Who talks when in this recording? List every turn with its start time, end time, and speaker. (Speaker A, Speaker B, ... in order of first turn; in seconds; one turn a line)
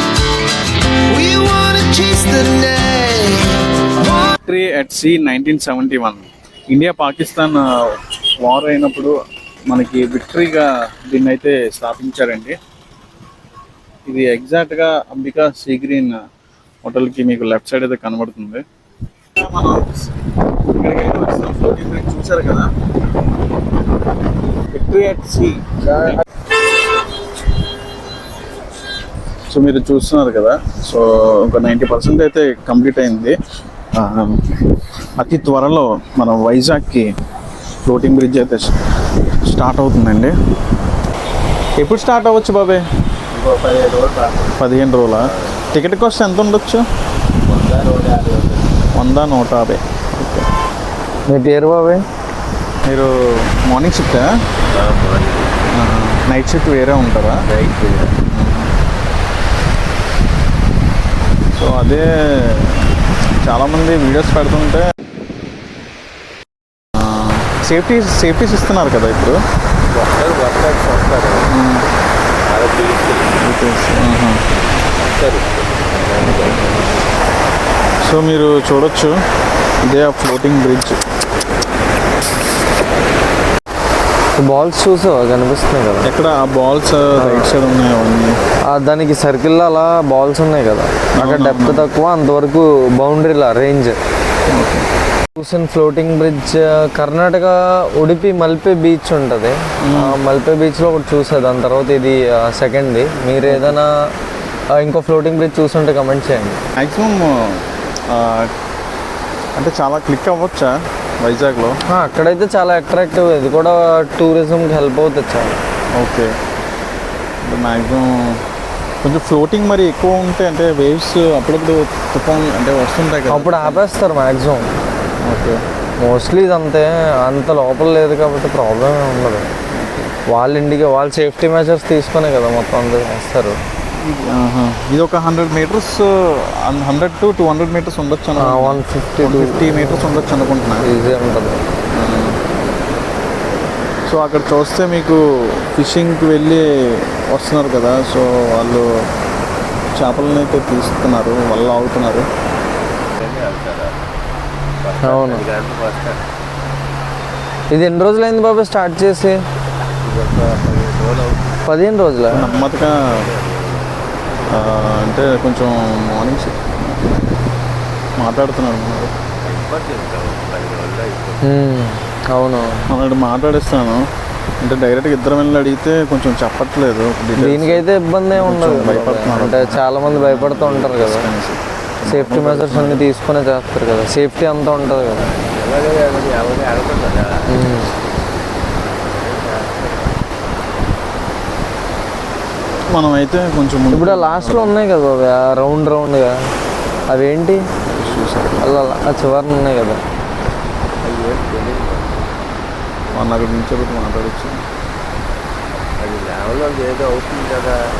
Speaker A: 1.1-4.3
Speaker B: 4.4-9.1
Speaker B: 9.7-12.6
Speaker B: 14.1-16.2
Speaker B: 16.8-18.6
Speaker B: 19.3-20.1
Speaker B: 20.7-22.7
Speaker B: 24.7-25.9
Speaker B: 29.5-33.3
Speaker B: 34.0-34.5
Speaker B: 35.2-37.1
Speaker B: 37.8-38.7
Speaker B: 39.5-40.3
Speaker B: 41.8-42.8
Speaker C: 43.3-44.5
Speaker B: 44.6-46.8
Speaker C: 45.2-45.5
Speaker C: 47.5-48.6
Speaker B: 48.9-50.5
Speaker D: 51.3-52.0
Speaker B: 52.9-53.1
Speaker B: 53.7-54.3
Speaker C: 54.7-55.5
Speaker B: 55.7-57.4
Speaker C: 57.4-58.1
Speaker B: 58.3-58.7
Speaker B: 61.5-62.9
Speaker B: 63.4-64.8
Speaker B: 67.0-69.4
Speaker C: 69.9-71.6
Speaker B: 71.5-71.8
Speaker C: 72.5-73.3
Speaker B: 73.4-74.4
Speaker C: 75.0-76.8
Speaker B: 78.0-79.1
Speaker B: 79.8-81.0
Speaker D: 84.4-86.1
Speaker B: 86.0-88.3
Speaker D: 87.2-87.6
Speaker D: 88.7-94.0
Speaker B: 91.2-91.9
Speaker B: 94.5-94.8
Speaker D: 95.3-103.9
Speaker B: 99.8-100.2
Speaker B: 103.5-103.8
Speaker D: 104.7-106.6
Speaker B: 106.8-108.5
Speaker B: 109.5-111.8
Speaker D: 111.9-115.5
Speaker B: 116.0-116.3
Speaker B: 117.4-118.4
Speaker B: 119.0-123.8
Speaker D: 123.3-124.7
Speaker B: 125.2-125.6
Speaker D: 126.0-129.5
Speaker D: 130.3-133.6
Speaker B: 134.0-140.9
Speaker D: 138.4-140.0
Speaker D: 140.8-141.6
Speaker B: 141.9-142.4
Speaker B: 144.1-148.8
Speaker B: 149.9-152.2
Speaker C: 153.1-153.9
Speaker C: 154.8-156.2
Speaker D: 155.0-155.4
Speaker D: 157.7-159.3
Speaker C: 160.0-161.6
Speaker D: 161.7-162.4
Speaker B: 162.3-163.0
Speaker C: 162.3-164.6
Speaker B: 164.5-167.2
Speaker B: 168.2-169.1
Speaker C: 169.4-171.5
Speaker D: 171.4-172.9
Speaker B: 172.9-174.0
Speaker B: 174.6-183.1
Speaker D: 177.4-181.3
Speaker D: 182.1-185.2
Speaker C: 184.8-187.3
Speaker D: 187.5-187.9
Speaker C: 188.8-190.2
Speaker B: 192.9-194.7
Speaker D: 193.9-196.3
Speaker D: 197.1-197.6
Speaker B: 197.9-198.9
Speaker D: 198.6-200.0
Speaker C: 201.0-202.3
Speaker B: 203.1-204.6
Speaker C: 206.0-207.8